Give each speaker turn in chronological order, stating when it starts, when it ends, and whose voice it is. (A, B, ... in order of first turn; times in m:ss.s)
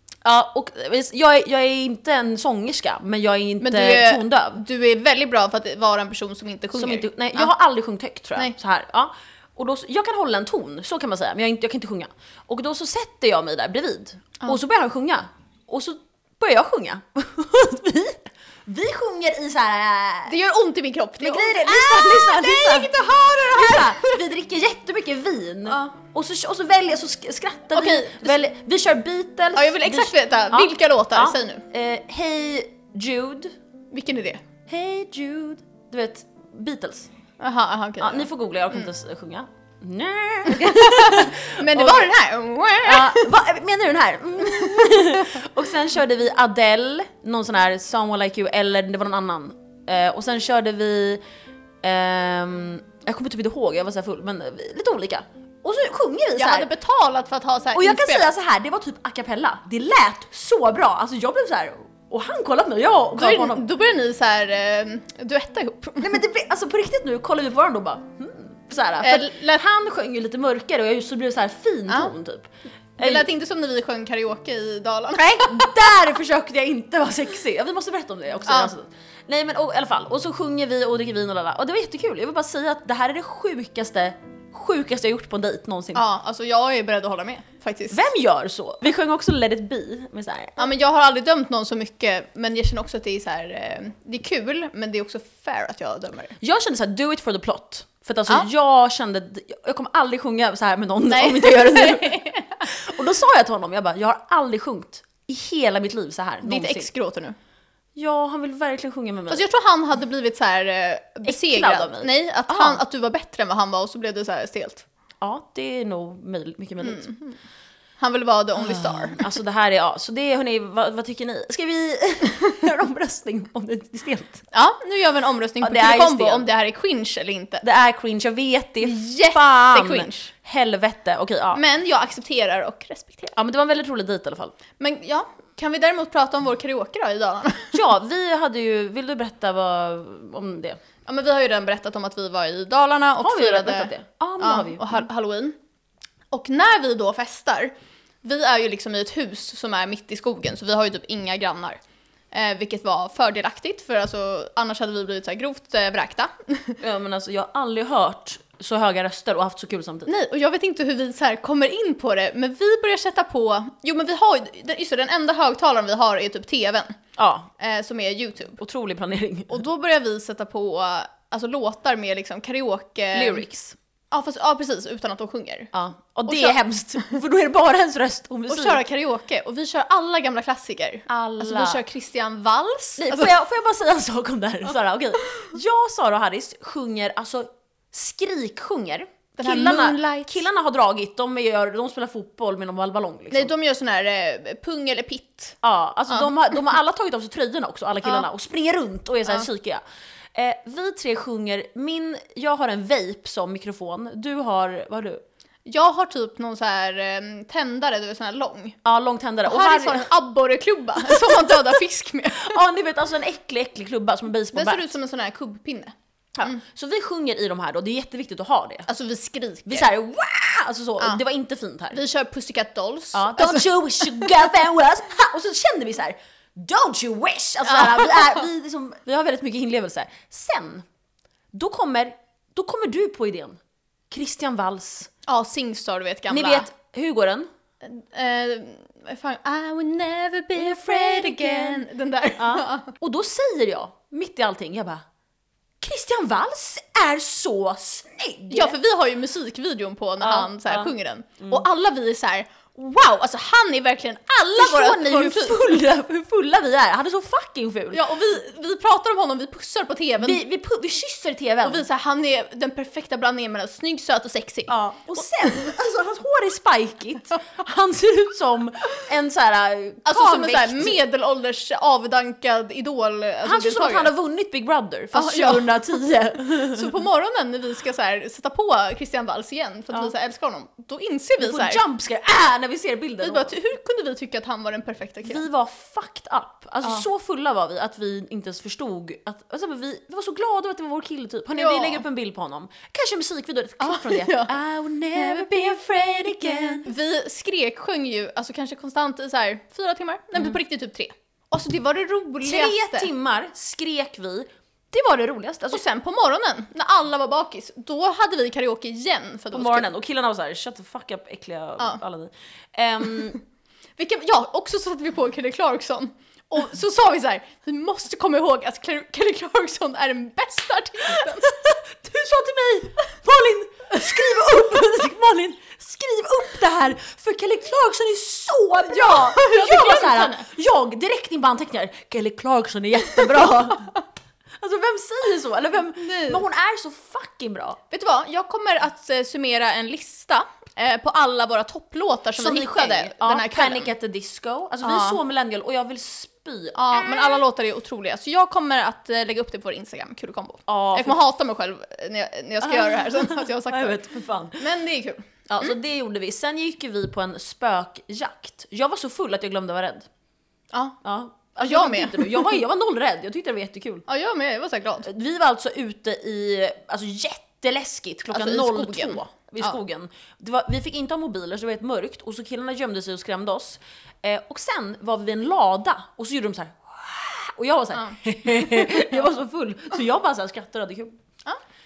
0:00.2-0:04.6 A
0:03.6-0:07.5 B
0:06.7-0:20.3 A
0:20.2-0:24.2 B
0:21.2-0:33.5 A
0:25.7-0:25.9 B
0:27.7-0:28.4 B
0:29.5-0:31.6 B
0:33.9-0:34.4 B
0:34.7-0:37.1 A
0:37.4-0:38.9 B
0:38.0-0:42.1 A
0:40.5-0:43.3 B
0:42.8-0:51.2 A
0:44.6-0:45.4 B
0:51.8-0:56.7 A
0:56.4-0:58.3 B
0:57.7-1:03.6 A
1:03.2-1:06.2 B
1:06.0-1:13.3 A
1:09.0-1:09.6 B
1:13.0-1:15.7 B
1:15.2-1:26.0 A
1:18.4-1:18.7 B
1:25.9-1:28.0 B
1:27.9-1:30.7 A
1:30.6-1:36.4 B
1:36.4-1:46.9 A
1:41.1-1:42.7 B
1:46.4-1:47.4 B
1:47.9-1:49.4 A
1:49.3-1:54.8 B
1:51.2-1:52.8 A
1:55.2-1:57.1 A
1:56.8-1:57.4 B
1:58.0-1:59.3 B
1:58.6-2:04.4 A
2:04.5-2:07.6 B
2:05.6-2:06.5 A
2:07.6-2:11.6 A
2:08.8-2:10.3 B
2:11.5-2:13.3 B
2:13.3-2:14.5 A
2:14.8-2:17.8 B
2:17.7-2:20.8 A
2:21.0-2:25.6 B
2:23.2-2:25.0 A
2:26.3-2:31.8 B
2:32.3-2:36.8 B
2:36.8-2:40.1 A
2:40.0-2:47.0 B
2:47.2-2:47.5 A
2:47.6-2:48.6 B
2:48.6-2:49.6 A
2:49.5-2:53.4 B
2:53.1-2:53.8 A
2:54.1-2:55.7 B
2:55.7-2:58.8 A
2:56.3-2:56.6 B
2:58.5-3:03.3 B
3:01.1-3:01.8 A
3:03.0-3:13.5 A
3:09.4-3:10.4 B
3:13.3-3:15.6 B
3:15.6-3:19.8 A
3:20.3-3:25.2 A
3:25.6-3:28.8 B
3:28.8-3:30.1 A
3:29.4-3:32.6 B
3:31.0-3:31.8 A
3:32.3-3:34.9 A
3:34.5-3:36.6 B
3:36.4-3:38.9 A
3:38.9-3:39.9 B
3:39.6-3:42.0 A
3:41.9-3:44.4 B
3:43.1-3:50.8 A
3:47.6-3:48.4 B
3:51.5-3:53.6 A
3:54.1-3:55.1 A
3:55.2-3:56.7 B
3:56.3-3:57.5 A
3:57.8-4:02.9 B
4:00.5-4:01.8 A
4:02.4-4:05.0 A
4:05.8-4:08.8 A
4:08.5-4:15.8 B
4:10.2-4:10.9 A
4:14.6-4:18.0 A
4:17.9-4:20.4 B
4:20.2-4:21.8 A
4:21.6-4:24.7 B
4:24.7-4:31.0 A
4:25.4-4:25.7 B
4:30.0-4:34.1 B
4:33.4-4:36.9 A
4:35.1-4:35.8 B
4:36.6-4:41.8 B
4:41.4-4:43.5 A
4:43.2-4:45.4 B
4:45.2-4:56.9 A
4:51.5-4:52.0 B
4:53.8-4:54.5 B
4:55.2-4:55.4 B
4:56.8-5:03.1 B
5:02.4-5:05.8 A
5:05.7-5:09.9 B
5:09.5-5:13.4 A
5:14.0-5:21.7 B
5:21.2-5:33.9 A
5:28.9-5:30.5 B
5:34.6-5:37.8 A
5:36.0-5:36.4 B
5:37.9-5:43.9 B
5:42.4-5:47.4 A
5:44.8-5:45.2 B
5:46.7-5:54.0 B
5:50.7-5:51.2 A
5:52.6-5:54.7 A
5:54.6-5:55.7 B
5:55.5-6:00.1 A
6:00.7-6:01.0 B
6:01.0-6:04.0 A
6:01.6-6:02.5 B
6:04.1-6:05.1 B
6:05.0-6:21.1 A
6:08.3-6:09.8 B
6:17.9-6:19.0 B